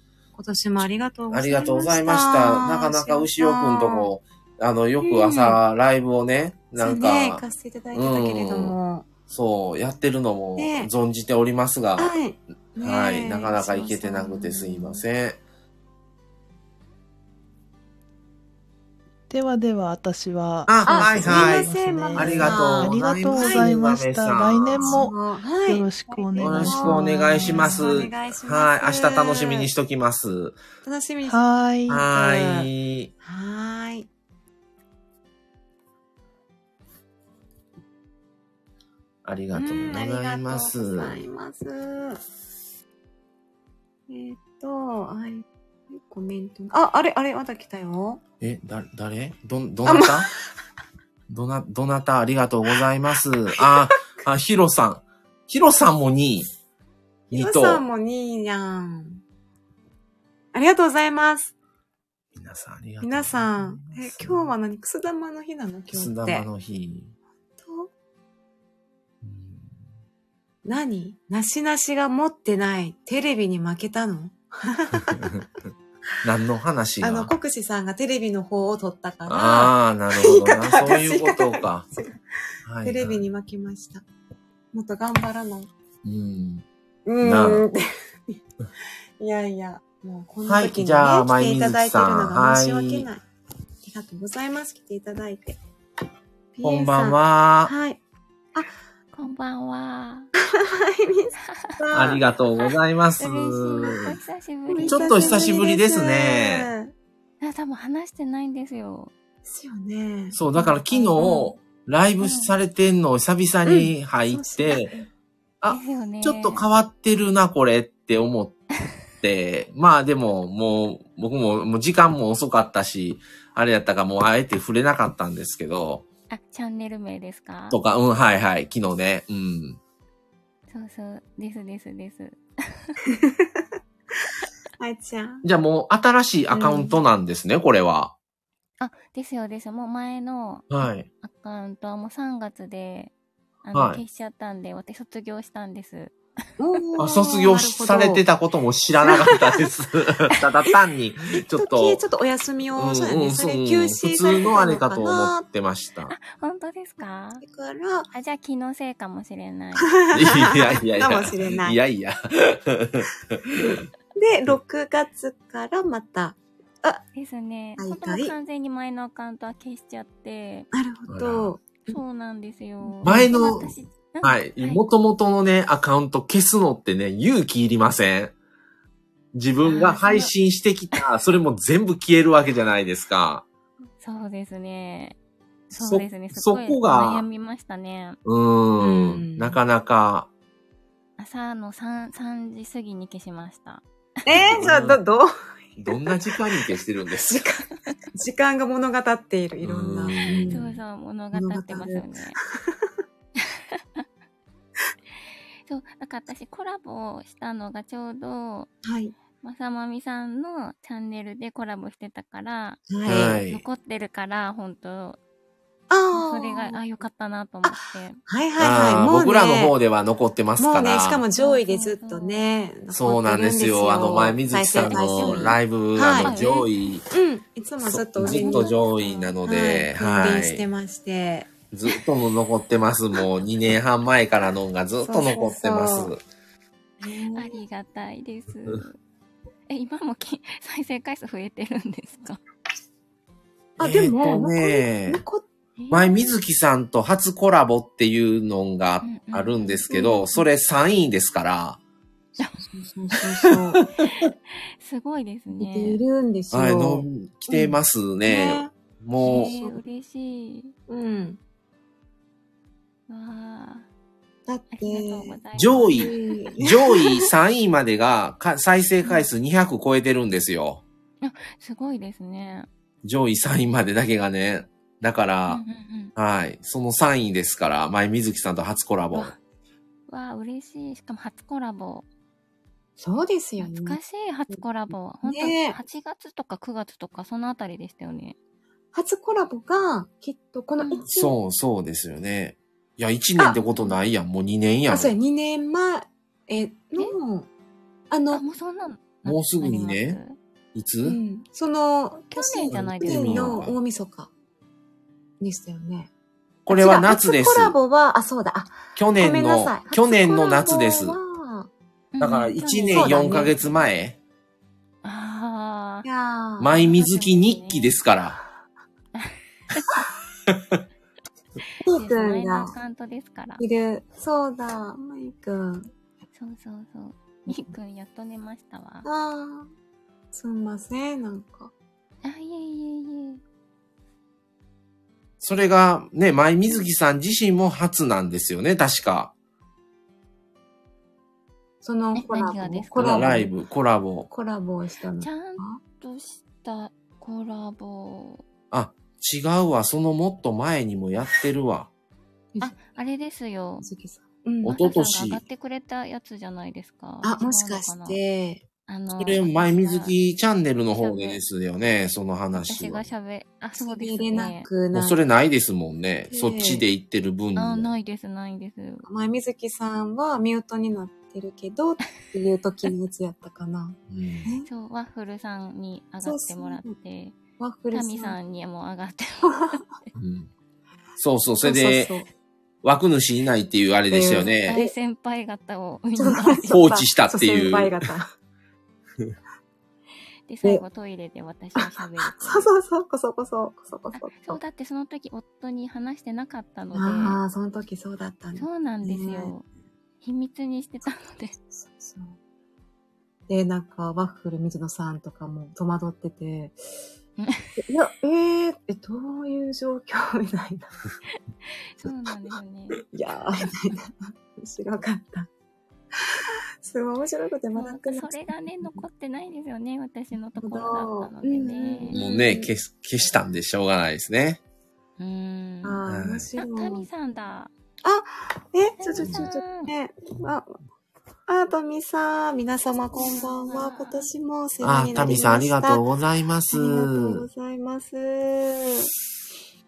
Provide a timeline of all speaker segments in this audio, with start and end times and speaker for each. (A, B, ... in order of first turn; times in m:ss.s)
0:00.4-0:04.1 A
0:01.3-0:08.8 B
0:05.0-0:05.6 A
0:06.8-0:09.1 A
0:09.3-0:12.1 B
0:10.6-0:10.9 A
0:12.0-0:15.0 A
0:12.8-0:15.4 B
0:19.3-0:28.0 C
0:20.7-0:25.1 B
0:20.9-0:23.7 A
0:24.7-0:29.7 A
0:26.4-0:30.6 B
0:30.8-0:31.4 A
0:31.3-0:32.1 C
0:31.9-0:33.1 B
0:32.1-0:32.7 A
0:33.2-0:34.1 A
0:39.2-0:41.2 B
0:39.5-0:42.2 A
0:44.1-0:48.2 A
0:48.4-0:50.3 B
0:49.8-0:50.4 A
0:51.3-0:56.5 B
0:57.3-0:57.8 B
0:57.3-0:59.2 A
1:00.5-1:01.5 A
1:02.4-1:04.5 B
1:03.0-1:06.5 A
1:05.9-1:07.1 B
1:07.6-1:07.9 A
1:09.2-1:09.8 B
1:10.6-1:15.4 A
1:15.1-1:15.4 B
1:16.2-1:17.3 B
1:17.0-1:22.2 A
1:19.3-1:21.9 B
1:22.7-1:23.2 B
1:22.8-1:24.0 A
1:24.7-1:25.7 A
1:26.0-1:26.6 B
1:27.1-1:28.4 A
1:27.2-1:27.6 B
1:29.2-1:33.2 A
1:30.5-1:33.1 B
1:33.8-1:35.6 A
1:36.5-1:38.0 A
1:36.6-1:37.7 B
1:39.1-1:40.3 D
1:40.6-1:42.2 A
1:41.9-1:44.2 B
1:43.2-1:44.0 A
1:43.6-1:45.7 D
1:44.7-1:46.9 A
1:44.8-1:46.7 B
1:47.4-1:49.1 D
1:49.5-1:51.3 A
1:50.3-1:54.9 B
1:51.2-1:51.5 D
1:52.2-1:52.5 D
1:53.6-1:55.1 A
1:55.6-1:58.6 B
1:55.7-1:56.7 D
1:59.2-2:06.0 B
2:06.3-2:07.8 D
2:07.7-2:09.8 B
2:10.7-2:13.0 D
2:13.1-2:13.6 A
2:14.8-2:15.4 A
2:15.4-2:18.1 B
2:16.5-2:17.0 A
2:18.8-2:26.2 D
2:20.7-2:21.1 B
2:23.7-2:24.0 B
2:26.6-2:28.2 A
2:27.0-2:32.0 B
2:31.5-2:35.4 A
2:32.8-2:36.1 B
2:36.1-2:37.4 D
2:37.4-2:38.1 A
2:38.1-2:40.0 D
2:39.9-2:41.8 A
2:40.1-2:43.8 B
2:44.2-2:47.0 A
2:47.2-2:50.7 D
2:47.8-2:48.3 A
2:50.7-2:52.0 A
2:51.1-2:51.5 B
2:51.9-2:54.8 D
2:52.8-2:53.6 A
2:53.0-2:58.3 B
2:59.3-3:03.4 B
2:59.6-3:00.3 D
3:04.0-3:05.2 D
3:05.7-3:08.2 D
3:05.8-3:07.2 B
3:08.2-3:10.3 B
3:08.8-3:09.6 A
3:11.2-3:13.8 D
3:14.2-3:16.2 A
3:14.3-3:15.0 B
3:15.8-3:17.4 B
3:17.3-3:20.7 A
3:19.6-3:20.7 B
3:20.2-3:22.4 D
3:21.3-3:22.1 A
3:23.4-3:24.0 D
3:25.7-3:28.7 D
3:28.8-3:29.2 A
3:29.4-3:35.2 D
3:32.9-3:33.4 A
3:33.0-3:33.6 B
3:35.9-3:36.8 A
3:36.1-3:38.2 D
3:37.6-3:39.7 A
3:38.6-3:41.2 B
3:40.6-3:46.3 A
3:41.4-3:42.5 D
3:42.9-3:47.1 B
3:44.9-3:45.5 D
3:46.2-3:46.7 D
3:47.1-3:48.7 A
3:47.9-3:50.6 B
3:48.2-3:49.4 D
3:49.4-3:51.5 A
3:51.7-3:56.2 B
3:55.0-3:56.1 A
3:57.0-3:57.6 A
3:57.4-3:59.0 D
3:59.7-4:02.4 D
4:03.8-4:05.2 B
4:03.8-4:05.4 A
4:05.8-4:06.3 D
4:05.9-4:11.8 B
4:09.0-4:10.4 D
4:12.4-4:13.8 A
4:13.8-4:14.3 B
4:14.0-4:16.0 D
4:15.6-4:18.7 A
4:16.5-4:19.5 B
4:19.2-4:20.8 D
4:19.2-4:19.8 A
4:20.9-4:21.4 A
4:23.1-4:23.9 D
4:24.5-4:25.4 A
4:24.7-4:26.6 D
4:25.6-4:30.8 B
4:26.0-4:27.1 A
4:31.2-4:32.7 D
4:33.0-4:35.6 B
4:35.5-4:36.1 D
4:36.2-4:39.3 B
4:40.1-4:42.1 D
4:43.0-4:44.0 A
4:43.6-4:48.4 D
4:45.2-4:45.8 A
4:48.9-4:51.4 A
4:50.8-4:51.0 D
4:51.1-4:55.2 B
4:54.9-4:57.5 A
4:58.1-4:58.4 A
4:58.3-5:00.4 D
4:59.2-5:00.2 B
5:00.7-5:01.2 B
5:01.0-5:04.3 A
5:02.3-5:03.6 D
5:02.7-5:03.8 B
5:05.4-5:06.1 A
5:06.7-5:07.8 B
5:06.7-5:11.7 A
5:09.0-5:11.2 B
5:12.1-5:13.8 D
5:12.2-5:14.2 B
5:12.9-5:13.5 A
5:15.0-5:16.1 D
5:16.0-5:16.9 A
5:16.6-5:18.4 B
5:16.7-5:18.0 D
5:19.2-5:20.0 D
5:20.5-5:20.8 B
5:21.8-5:22.7 A
5:21.9-5:23.6 D
5:23.6-5:25.8 A
5:26.4-5:29.1 D
5:29.0-5:29.7 A
5:30.3-5:31.7 A
5:32.2-5:33.4 D
5:35.4-5:39.3 B
5:41.8-5:43.5 A
5:42.2-5:43.4 D
5:43.0-5:44.3 B
5:44.3-5:45.8 A
5:45.2-5:48.4 D
5:48.7-5:51.9 B
5:52.6-5:53.9 D
5:53.8-5:54.8 A
5:54.6-5:55.4 B
5:54.7-5:58.2 D
5:57.2-5:58.6 A
5:58.9-6:00.2 D
5:59.2-6:03.0 B
6:01.0-6:01.4 D
6:02.5-6:04.7 D
6:03.8-6:05.2 A
6:04.9-6:07.9 B
6:06.3-6:06.8 A
6:07.6-6:09.1 D
6:09.0-6:14.7 A
6:14.1-6:14.5 B
6:14.7-6:17.4 D
6:16.2-6:17.0 A
6:17.6-6:18.4 A
6:17.9-6:19.9 D
6:20.2-6:20.5 B
6:21.2-6:22.1 B
6:21.6-6:22.3 A
6:22.8-6:24.8 B
6:24.1-6:24.9 A
6:24.4-6:26.8 D
6:26.2-6:28.3 A
6:26.7-6:28.0 B
6:30.5-6:32.7 D
6:31.8-6:34.6 A
6:34.1-6:37.4 D
6:37.0-6:39.5 A
6:38.6-6:39.6 D
6:40.2-6:41.6 D
6:41.7-6:42.4 A
6:43.5-6:46.8 A
6:47.4-6:47.8 D
6:47.8-6:50.9 A
6:51.9-6:53.0 D
6:53.1-6:55.5 A
6:56.4-6:59.0 A
6:57.8-7:02.5 D
7:00.6-7:02.6 A
7:02.1-7:04.6 B
7:05.2-7:06.0 D
7:05.8-7:07.1 A
7:06.1-7:06.5 B
7:06.6-7:07.7 D
7:08.0-7:10.8 A
7:09.0-7:09.9 D
7:11.5-7:16.0 A
7:13.2-7:14.3 D
7:14.8-7:17.5 B
7:16.7-7:19.1 A